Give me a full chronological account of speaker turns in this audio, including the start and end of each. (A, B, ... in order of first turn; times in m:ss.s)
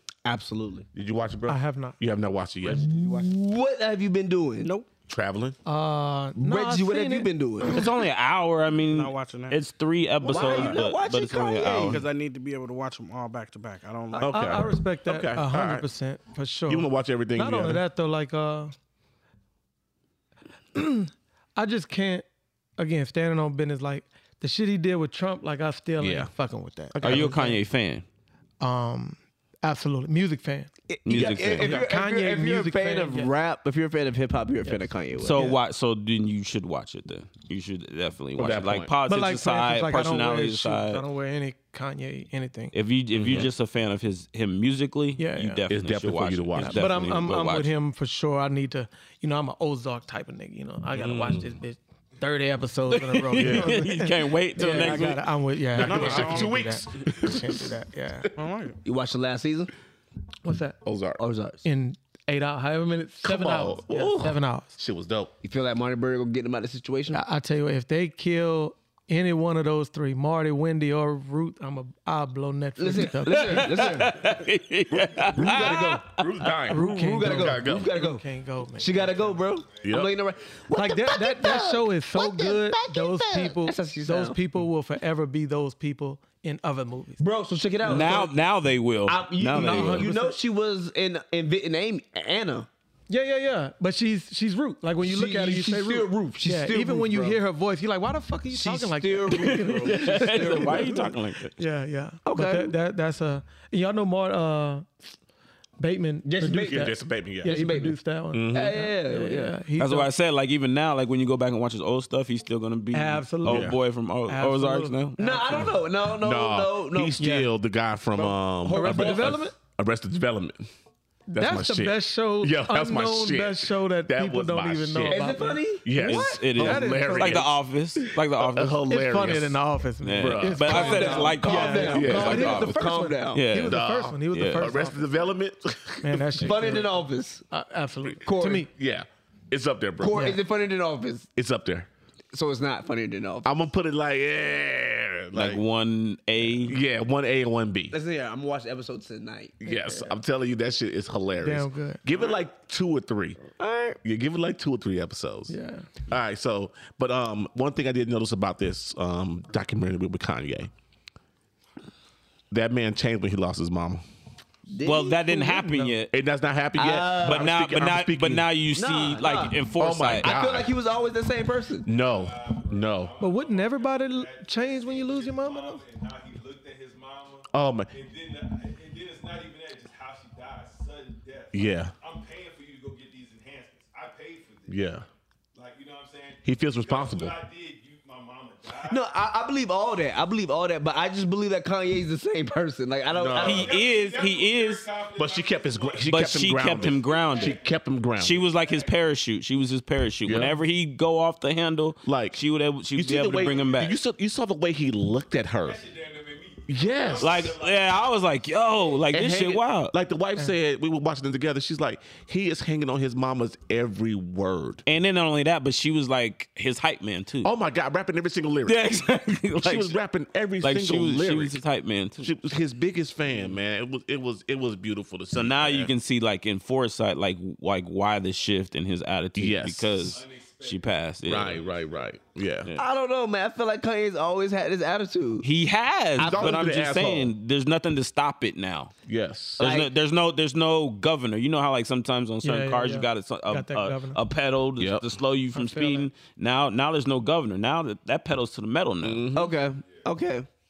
0:00.2-0:00.9 A
0:00.9-0:02.9 B
0:01.5-0:02.0 C
0:02.6-0:04.7 A
0:02.9-0:03.3 D
0:04.6-0:04.9 D
0:05.1-0:05.6 B
0:05.6-0:07.9 C
0:06.3-0:07.9 A
0:07.6-0:12.0 E
0:08.8-0:09.6 D
0:10.2-0:12.0 A
0:10.4-0:10.6 D
0:11.6-0:14.4 D
0:14.2-0:15.8 B
0:14.2-0:18.7 C
0:16.7-0:17.8 B
0:20.7-0:22.2 C
0:22.8-0:27.6 C
0:26.0-0:26.3 B
0:26.9-0:27.4 B
0:27.0-0:28.0 E
0:28.6-0:30.7 C
0:30.9-0:35.5 A
0:31.0-0:31.8 E
0:31.2-0:31.8 B
0:31.6-0:33.3 C
0:35.2-0:41.0 E
0:35.3-0:35.6 C
0:38.4-0:38.9 B
0:39.1-0:42.7 C
0:42.7-0:47.7 E
0:43.2-0:43.5 B
0:45.2-0:45.6 C
0:45.7-0:47.2 B
0:46.6-0:58.3 C
0:51.0-0:51.5 B
0:52.9-0:55.3 E
0:53.3-0:53.8 B
0:55.7-0:57.7 B
0:55.8-0:56.6 D
0:58.4-0:58.8 D
0:58.8-0:59.7 A
1:00.4-1:00.8 C
1:00.8-1:01.2 B
1:01.2-1:01.6 A
1:01.6-1:04.8 C
1:03.2-1:05.3 B
1:05.4-1:07.2 A
1:07.1-1:14.0 C
1:12.8-1:14.3 A
1:13.2-1:16.0 E
1:14.9-1:17.9 B
1:15.3-1:18.2 A
1:16.7-1:19.3 C
1:18.8-1:24.4 A
1:19.3-1:20.3 F
1:19.8-1:20.1 B
1:20.7-1:27.2 C
1:27.2-1:28.3 A
1:27.8-1:30.1 E
1:29.0-1:32.7 A
1:29.5-1:30.3 C
1:33.1-1:44.9 C
1:35.0-1:37.4 A
1:38.5-1:41.1 A
1:39.3-1:41.5 E
1:42.2-1:42.7 A
1:45.8-1:50.1 C
1:46.2-1:48.0 A
1:46.6-1:47.5 B
1:48.3-1:48.7 B
1:48.5-1:49.6 A
1:49.8-1:55.6 E
1:52.9-1:53.7 C
1:53.4-1:53.8 B
1:54.3-1:55.6 C
1:55.2-1:57.2 A
1:56.0-2:00.7 B
1:57.2-1:57.5 C
1:58.2-1:59.5 C
1:58.7-1:59.3 A
2:01.3-2:07.5 C
2:01.3-2:07.6 B
2:05.0-2:05.9 A
2:06.0-2:08.8 E
2:08.4-2:09.6 B
2:08.9-2:15.2 C
2:10.0-2:14.7 E
2:10.2-2:11.1 B
2:10.6-2:13.4 A
2:11.9-2:12.8 B
2:13.7-2:16.6 B
2:16.0-2:18.7 C
2:16.4-2:17.4 A
2:18.2-2:18.7 A
2:18.7-2:20.3 B
2:20.0-2:21.3 A
2:20.1-2:20.4 C
2:21.4-2:21.9 B
2:22.3-2:23.5 A
2:23.4-2:25.6 B
2:25.3-2:26.8 E
2:26.6-2:28.0 B
2:27.9-2:29.9 A
2:29.6-2:33.4 B
2:31.4-2:32.0 C
2:33.6-2:34.0 A
2:34.0-2:35.5 B
2:35.5-2:35.9 C
2:36.1-2:40.7 B
2:42.5-2:44.0 B
2:44.7-2:45.4 A
2:44.8-2:46.1 E
2:45.3-2:46.0 C
2:46.1-2:48.5 B
2:46.8-2:47.5 A
2:47.2-2:50.3 E
2:48.7-2:49.6 A
2:49.8-2:50.8 B
2:50.2-2:51.9 A
2:51.8-2:53.1 B
2:51.9-3:05.0 F
2:53.2-2:55.8 C
2:57.5-2:57.9 B
3:01.5-3:01.9 B
3:04.7-3:05.0 B
3:05.5-3:09.1 F
3:06.4-3:07.4 B
3:08.8-3:13.6 A
3:13.1-3:13.7 B
3:13.3-3:17.7 F
3:13.4-3:14.9 E
3:15.2-3:18.4 B
3:16.0-3:17.6 E
3:18.2-3:23.9 E
3:18.4-3:19.0 F
3:20.2-3:20.5 B
3:22.0-3:22.4 B
3:22.9-3:25.8 B
3:23.3-3:24.0 F
3:25.6-3:28.1 F
3:26.7-3:27.6 B
3:27.2-3:29.9 E
3:29.1-3:34.8 B
3:34.8-3:37.5 E
3:37.4-3:38.9 B
3:38.6-3:39.9 E
3:39.6-3:41.6 B
3:40.6-3:42.3 E
3:42.2-3:45.9 B
3:45.3-3:51.6 E
3:49.4-3:50.2 B
3:50.1-3:52.2 F
3:51.2-3:52.7 B
3:52.8-3:55.5 A
3:55.4-3:58.9 E
3:56.2-3:56.6 A
3:56.2-3:57.3 B
3:59.1-3:59.6 B
3:59.6-3:59.9 A
3:59.6-4:09.2 E
4:02.4-4:04.2 C
4:04.8-4:05.1 B
4:05.5-4:06.1 C
4:09.0-4:09.6 B
4:09.3-4:10.5 A